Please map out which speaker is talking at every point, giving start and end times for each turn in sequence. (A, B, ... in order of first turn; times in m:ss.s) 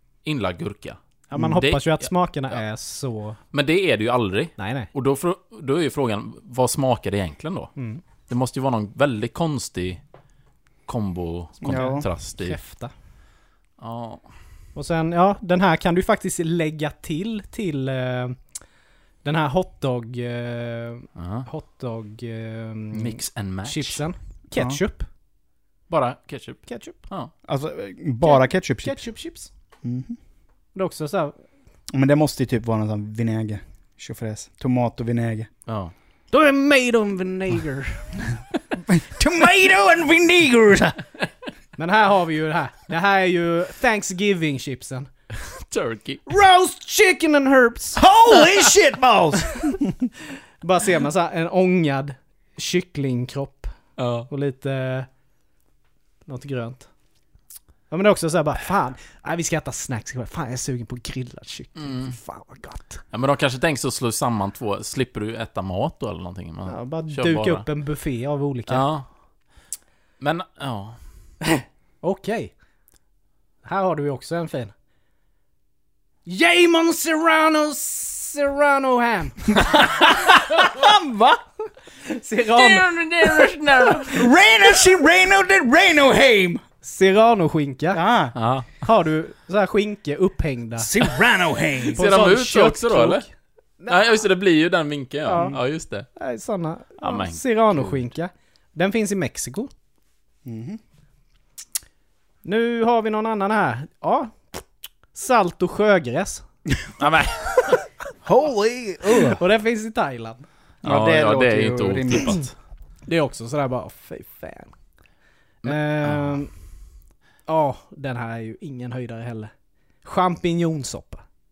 0:00.2-0:02.6 A
0:01.3-0:03.4 B
0:03.5-0:07.7 A
0:04.6-0:04.9 B
0:07.8-0:08.0 B
0:08.3-0:10.0 A
0:10.9-0:12.6 A
0:11.6-0:12.0 C
0:11.6-0:12.9 B
0:13.8-0:14.2 A
0:14.8-0:18.4 B
0:19.2-0:25.1 B
0:21.2-0:21.5 A
0:22.9-0:24.0 A
0:25.9-0:27.3 A
0:26.7-0:27.0 B
0:27.4-0:29.0 C
0:28.2-0:29.5 B
0:29.8-0:30.2 C
0:30.8-0:31.4 B
0:31.9-0:35.5 C
0:35.7-0:35.9 A
0:36.3-0:38.3 B
0:38.9-0:41.0 C
0:41.8-0:45.1 B
0:45.5-0:46.2 A
0:46.3-0:48.7 B
0:48.0-0:50.1 C
0:50.6-0:53.7 B
0:54.0-0:54.3 A
0:54.3-0:55.1 B
0:56.3-0:56.9 B
0:57.9-1:03.0 B
1:01.8-1:02.1 A
1:03.1-1:07.7 A
1:06.7-1:08.9 B
1:08.7-1:09.1 A
1:10.2-1:11.0 A
1:11.6-1:12.5 B
1:13.6-1:14.7 B
1:16.3-1:20.3 B
1:20.0-1:21.4 C
1:22.0-1:23.9 B
1:22.5-1:24.2 A
1:24.0-1:26.6 C
1:26.8-1:28.0 B
1:27.9-1:28.4 C
1:28.4-1:28.7 A
1:28.8-1:31.2 B
1:30.8-1:32.1 C
1:31.9-1:34.0 B
1:31.9-1:33.2 A
1:33.9-1:36.1 A
1:35.2-1:35.6 B
1:36.1-1:39.7 B
1:37.0-1:38.0 A
1:40.4-1:40.8 C
1:42.4-1:44.6 B
1:45.1-1:46.4 B
1:47.0-1:47.8 A
1:48.2-1:49.4 C
1:49.0-1:50.4 B
1:50.8-1:52.4 C
1:50.8-1:52.5 A
1:53.1-1:54.7 B
1:55.6-1:56.3 A
1:55.6-1:56.5 B
1:57.5-1:59.5 B
2:00.0-2:01.2 B